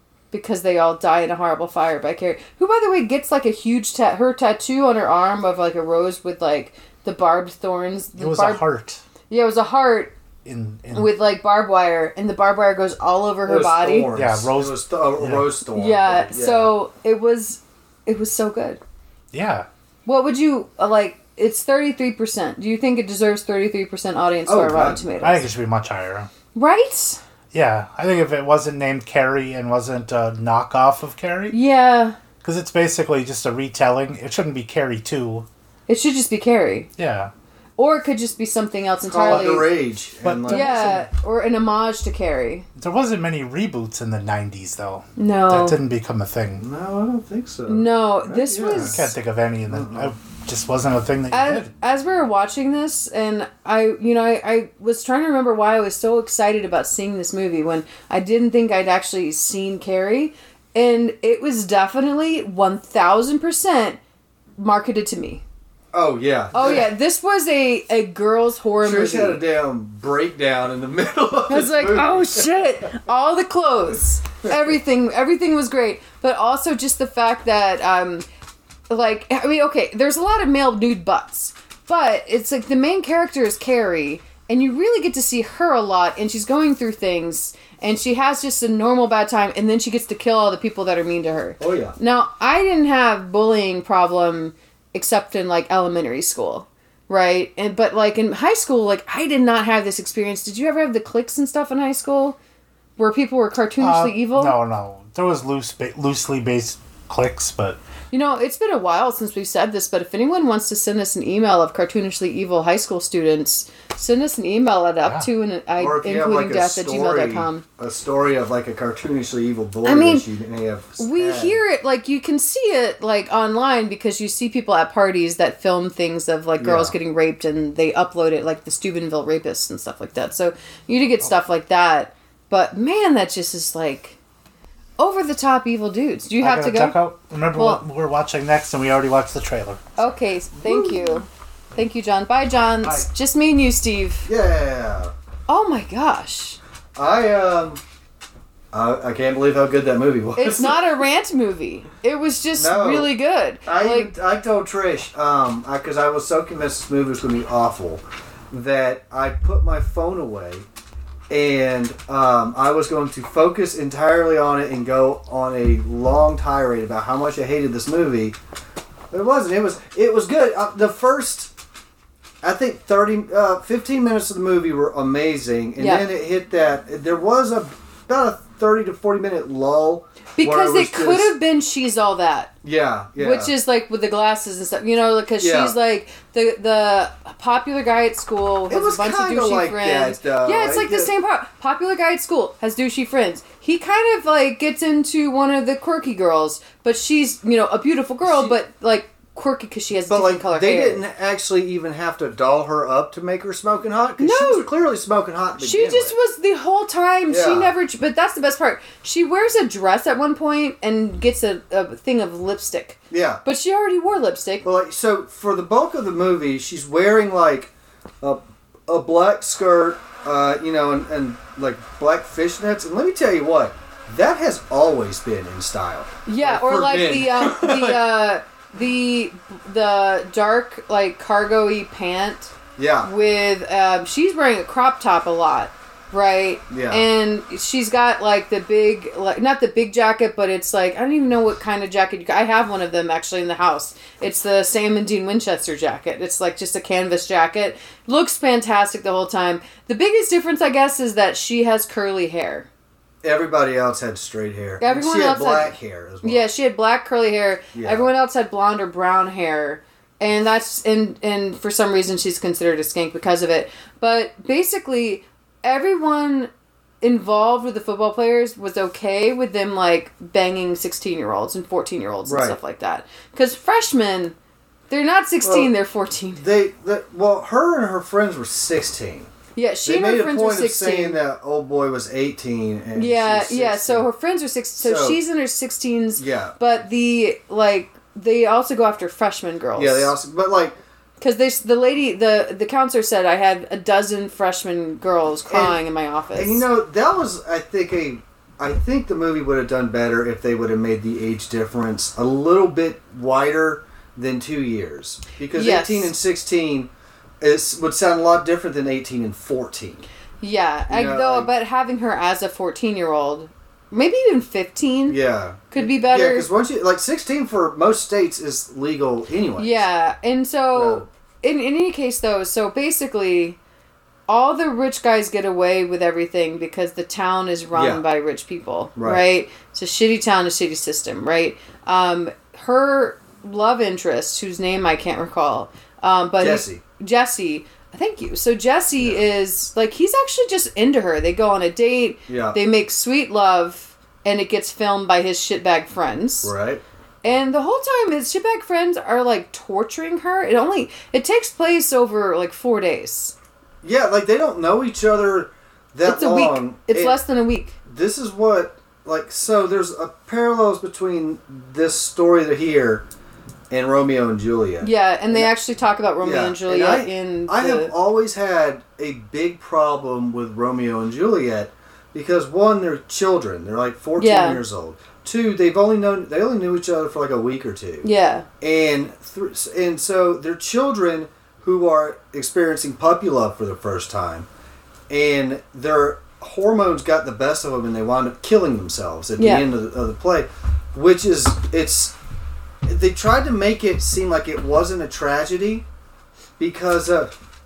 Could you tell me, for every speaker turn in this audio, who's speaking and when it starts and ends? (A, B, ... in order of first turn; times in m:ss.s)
0:00.3-0:08.6 A
0:08.2-0:09.0 B
0:09.3-0:10.1 A
0:10.4-0:11.1 B
0:10.9-0:14.1 A
0:13.5-0:16.7 C
0:14.1-0:15.5 B
0:15.7-0:18.8 A
0:19.3-0:19.7 B
0:20.1-0:25.4 A
0:24.5-0:25.0 C
0:25.2-0:26.3 B
0:26.6-0:27.2 A
0:27.5-0:31.6 B
0:31.5-0:32.2 A
0:32.4-0:35.5 B
0:35.9-0:36.9 A
0:37.0-0:37.3 B
0:37.8-0:39.7 A
0:39.1-0:41.0 C
0:39.3-0:39.6 B
0:40.2-0:41.0 B
0:40.5-0:42.7 A
0:42.8-0:46.6 B
0:45.2-0:45.8 A
0:46.6-0:49.0 C
0:47.7-0:49.0 A
0:48.8-0:51.7 B
0:49.7-0:50.1 C
0:51.3-1:04.0 A
1:04.6-1:05.4 A
1:05.9-1:06.9 C
1:06.5-1:09.4 A
1:08.8-1:12.9 C
1:11.5-1:18.2 A
1:18.9-1:42.4 A
1:31.6-1:32.0 C
1:43.0-1:44.6 A
1:43.8-1:47.8 B
1:48.1-1:57.6 A
1:55.8-2:01.6 C
1:59.8-2:00.3 A
2:01.0-2:14.2 A
2:06.6-2:07.0 C
2:15.0-2:17.0 A
2:16.4-2:20.1 B
2:17.5-2:17.8 A
2:20.0-2:24.3 A
2:20.6-2:21.2 C
2:24.3-2:25.1 C
2:25.5-2:26.6 A
2:27.0-2:27.8 C
2:28.7-2:30.9 C
2:30.4-2:34.1 A
2:32.6-2:33.1 C
2:33.7-2:40.6 C
2:41.3-2:48.4 C
2:49.1-2:51.5 C
2:52.4-3:01.4 C
2:55.8-2:56.1 A
3:00.4-3:02.5 A
3:02.6-3:03.5 C
3:03.2-3:21.0 A
3:05.4-3:05.8 C
3:08.7-3:11.1 C
3:18.2-3:18.6 C
3:20.1-3:26.2 C
3:24.2-3:24.7 A
3:25.6-3:34.7 A
3:27.3-3:27.7 C
3:33.1-3:33.4 C
3:34.6-3:37.7 C
3:38.2-3:48.1 C
3:46.3-4:12.7 A
3:52.8-3:53.1 C
3:56.7-3:57.1 C
4:13.2-4:16.5 C
4:14.8-4:26.5 A
4:17.8-4:18.1 C
4:27.0-4:34.4 A
4:32.3-4:32.6 C
4:34.9-4:36.4 A
4:35.4-4:35.7 C
4:36.4-4:39.3 C
4:39.6-4:41.2 A
4:39.8-4:44.1 C
4:43.0-4:50.1 A
4:44.8-4:45.2 C
4:46.2-4:46.6 C
4:49.8-4:50.8 C
4:51.2-4:56.6 A
4:55.5-4:55.8 C
4:56.4-5:06.9 C
5:05.5-5:06.1 A
5:07.4-5:10.1 C
5:10.4-5:15.2 A
5:10.9-5:11.5 C
5:15.1-5:19.8 C
5:15.7-5:16.5 A
5:19.6-5:23.6 A
5:20.7-5:21.1 C
5:24.3-5:46.5 A
5:27.7-5:28.0 C
5:29.0-5:29.2 C
5:36.4-5:36.8 C
5:42.3-5:42.6 C
5:46.4-5:46.8 C
5:47.2-5:53.3 A
5:53.8-5:57.2 C
5:56.0-5:57.8 A
5:57.8-6:03.1 C
6:03.7-6:05.5 C
6:04.8-6:07.9 A
6:06.2-6:18.1 C
6:14.2-6:14.6 A
6:18.0-6:18.5 A
6:18.6-6:24.5 C
6:25.1-6:32.2 C
6:29.4-6:29.6 A
6:32.8-6:35.8 C
6:36.6-6:37.3 C